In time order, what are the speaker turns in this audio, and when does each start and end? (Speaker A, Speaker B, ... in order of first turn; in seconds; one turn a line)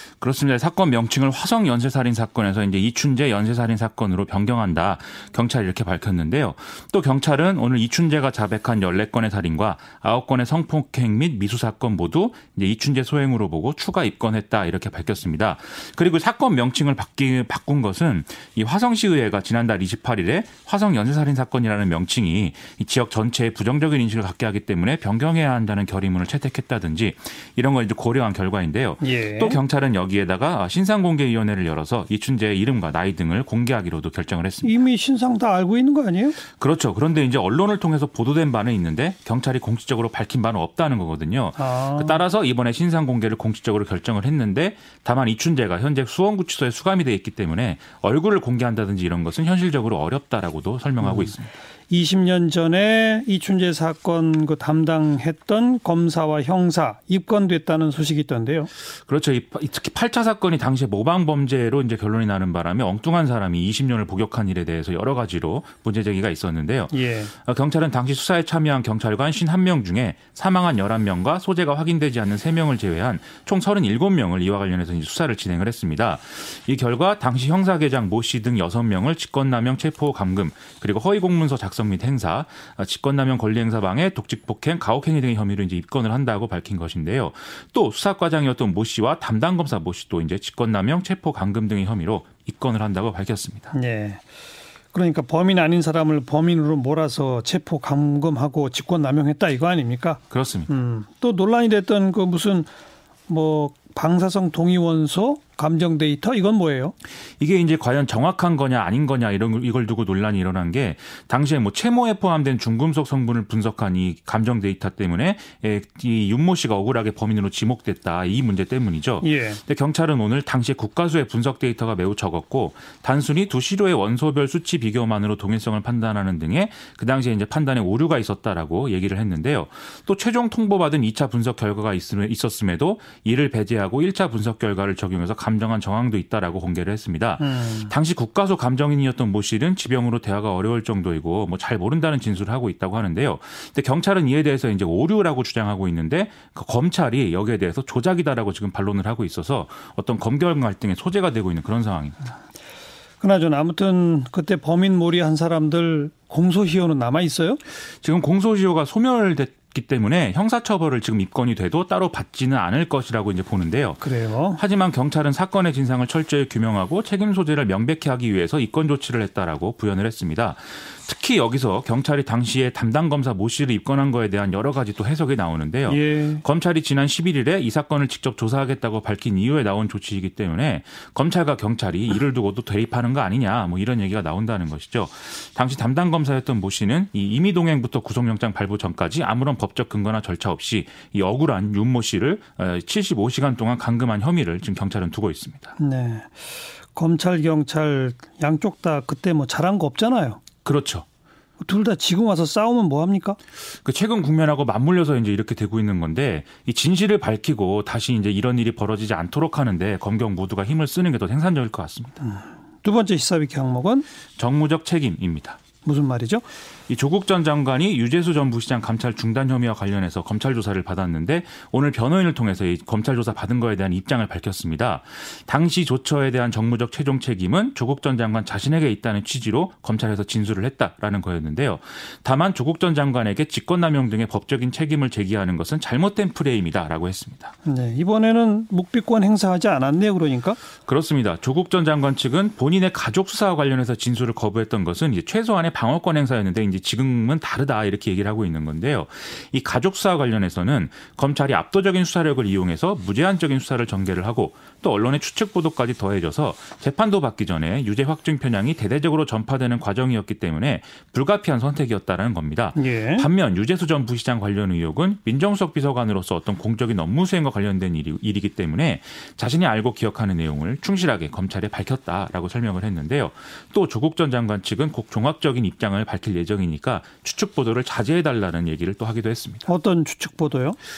Speaker A: 0.2-34.8
Speaker B: 29.0-29.6
Speaker B: 34.6-36.4
Speaker A: 36.6-51.5
Speaker B: 41.6-42.2
Speaker B: 51.9-58.7
Speaker A: 59.1-93.7
Speaker B: 66.9-67.3
Speaker B: 93.7-94.2
Speaker B: 94.9-102.7
Speaker A: 100.3-100.7
Speaker B: 103.3-106.9
Speaker A: 107.4-152.2
Speaker B: 119.2-119.6
Speaker B: 137.4-137.9
Speaker B: 153.2-157.6
Speaker A: 158.0-164.0
Speaker B: 164.0-164.6
Speaker A: 164.5-195.7
Speaker B: 175.9-176.4
Speaker B: 195.8-196.4
Speaker B: 196.9-200.4
Speaker A: 200.6-201.0
Speaker B: 201.6-203.4
Speaker A: 203.8-212.2
Speaker B: 212.2-214.1
Speaker A: 214.4-215.6
Speaker B: 215.8-216.4
Speaker A: 216.9-237.5
Speaker B: 237.6-240.6
Speaker A: 240.9-279.7
Speaker B: 262.8-263.3
Speaker B: 279.6-280.8